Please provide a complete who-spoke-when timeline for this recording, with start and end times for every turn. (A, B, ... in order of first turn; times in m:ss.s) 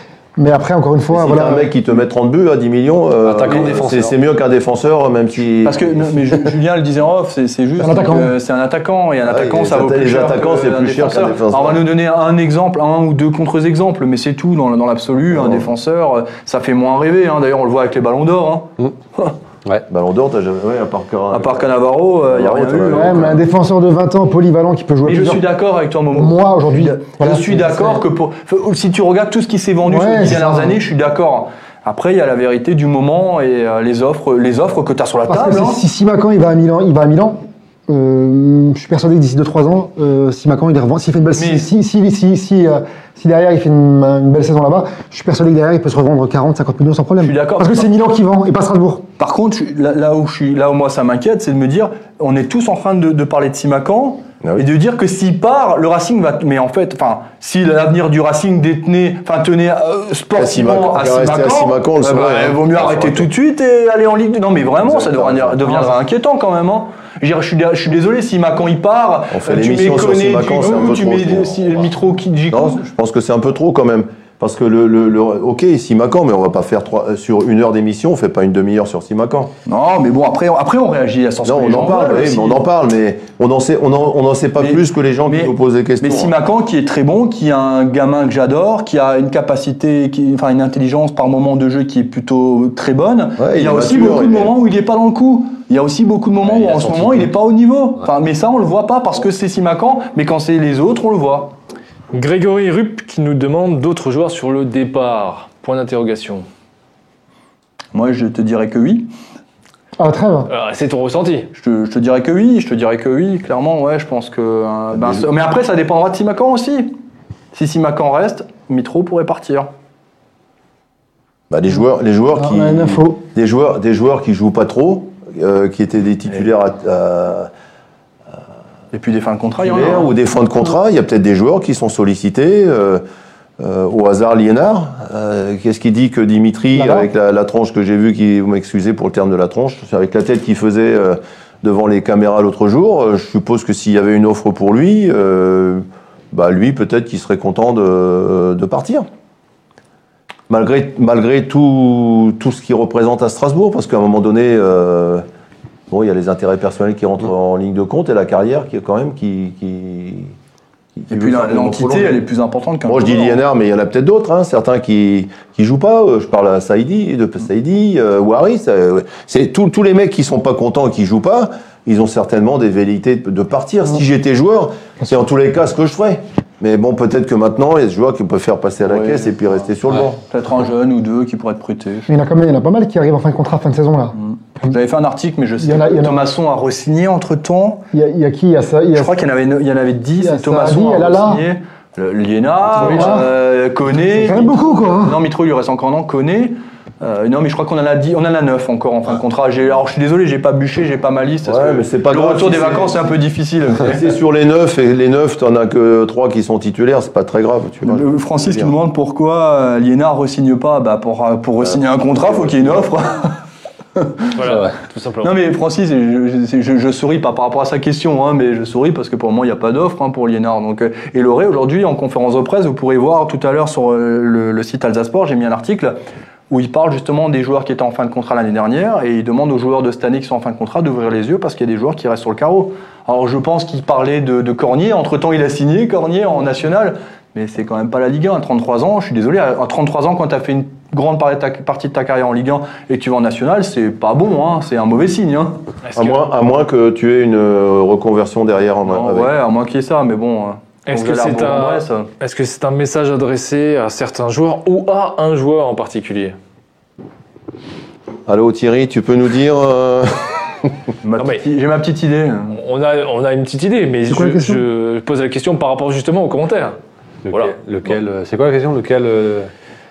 0:00.4-0:01.7 A
0:01.1-0:06.4 B
0:03.2-0:04.2 C
0:05.6-0:19.4 D
0:07.8-0:08.3 A
0:09.2-0:11.9 B
0:15.3-0:15.7 B
0:19.9-0:21.7 B
0:21.3-0:23.4 D
0:22.3-0:23.4 B
0:22.9-0:25.4 A
0:25.0-0:35.8 D
0:26.1-0:28.0 A
0:29.8-0:30.8 A
0:35.3-0:49.1 A
0:41.4-0:41.7 D
0:47.2-0:47.9 D
0:49.2-1:12.8 D
1:00.4-1:03.3 B
1:04.8-1:06.0 B
1:09.3-1:11.9 B
1:12.5-1:19.5 B
1:19.7-1:22.7 D
1:21.4-1:26.4 B
1:24.6-1:41.5 D
1:33.4-1:34.5 B
1:36.5-1:37.3 C
1:42.1-1:46.5 E
1:47.9-1:49.1 D
1:50.0-1:50.5 A
1:50.5-1:51.5 E
1:51.5-1:57.0 D
1:54.9-1:55.2 B
1:57.5-1:59.7 D
2:01.5-2:07.5 B
2:02.4-2:03.2 A
2:08.9-2:10.1 D
2:09.6-2:13.0 B
2:13.6-2:29.1 B
2:16.8-2:17.1 A
2:30.5-2:35.2 B
2:35.9-2:40.3 B
2:41.0-2:42.2 B
2:41.1-2:43.4 D
2:42.9-3:00.2 B
2:58.8-2:59.3 D
3:00.3-3:02.1 D
3:02.1-3:04.2 A
3:04.2-3:07.9 D
3:05.6-3:06.2 A
3:07.9-3:09.2 A
3:08.9-3:24.2 D
3:10.2-3:11.4 A
3:12.8-3:13.3 A
3:14.1-3:15.2 A
3:21.4-3:23.1 B
3:23.8-3:28.8 B
3:27.8-3:33.4 D
3:32.3-3:32.7 B
3:34.0-3:34.6 D
3:34.3-3:35.3 E
3:35.2-3:46.0 D
3:46.5-4:05.6 D
4:05.8-4:06.2 E
4:06.0-4:09.3 B
4:08.9-4:12.1 D
4:10.9-4:16.4 E
4:18.3-4:20.7 B
4:21.0-4:22.6 D
4:21.2-4:21.4 E
4:22.5-4:26.8 E
4:24.1-4:24.6 A
4:27.2-4:29.5 C
4:27.3-4:27.6 E